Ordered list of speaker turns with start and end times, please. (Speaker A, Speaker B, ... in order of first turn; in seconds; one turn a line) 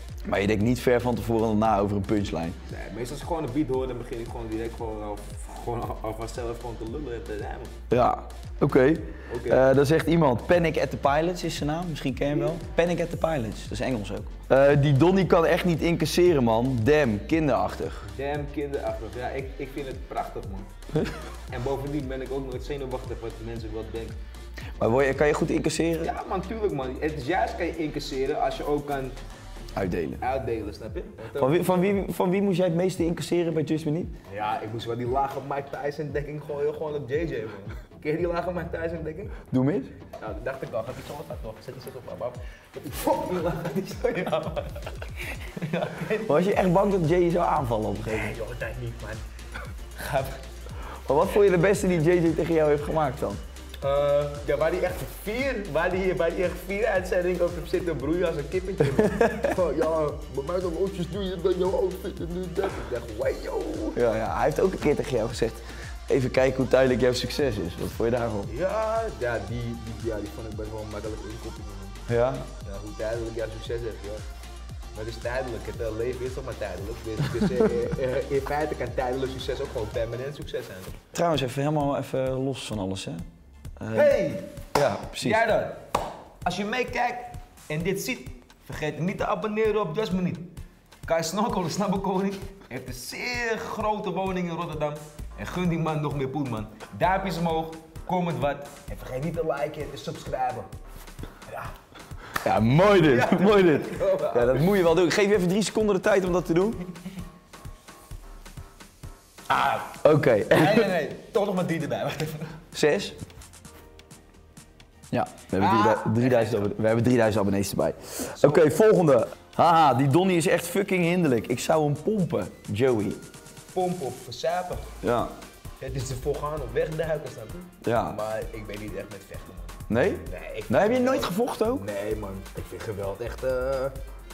Speaker A: 0.3-2.6
Speaker B: 2.7-7.7
Speaker A: 7.9-18.0
Speaker B: 9.3-9.6
Speaker B: 12.2-12.6
Speaker B: 18.1-20.7
Speaker B: 21.5-24.2
Speaker A: 24.8-26.1
Speaker B: 26.0-29.2
Speaker A: 29.8-30.2
Speaker B: 30.2-32.0
Speaker A: 31.4-34.1
Speaker B: 34.3-39.3
Speaker A: 39.5-39.9
Speaker B: 40.2-46.5
Speaker A: 46.3-48.3
Speaker B: 48.0-49.2
Speaker B: 50.0-50.4
Speaker A: 51.1-53.4
Speaker B: 53.8-64.0
Speaker A: 64.0-68.5
Speaker B: 68.5-72.0
Speaker A: 72.1-72.5
Speaker B: 72.6-74.2
Speaker B: 75.0-81.0
Speaker A: 81.1-83.2
Speaker A: 83.8-84.1
Speaker B: 83.9-84.5
Speaker A: 84.7-85.4
Speaker B: 85.2-85.8
Speaker B: 86.4-90.5
Speaker B: 91.0-100.7
Speaker B: 101.5-101.7
Speaker A: 102.4-106.8
Speaker B: 102.9-104.7
Speaker B: 109.5-109.9
Speaker A: 109.9-110.9
Speaker B: 110.5-112.5
Speaker A: 112.7-113.2
Speaker A: 115.1-123.2
Speaker B: 115.5-116.7
Speaker B: 118.3-118.8
Speaker B: 123.7-124.9
Speaker A: 125.0-125.3
Speaker B: 125.8-133.9
Speaker A: 127.8-128.2
Speaker A: 129.9-131.8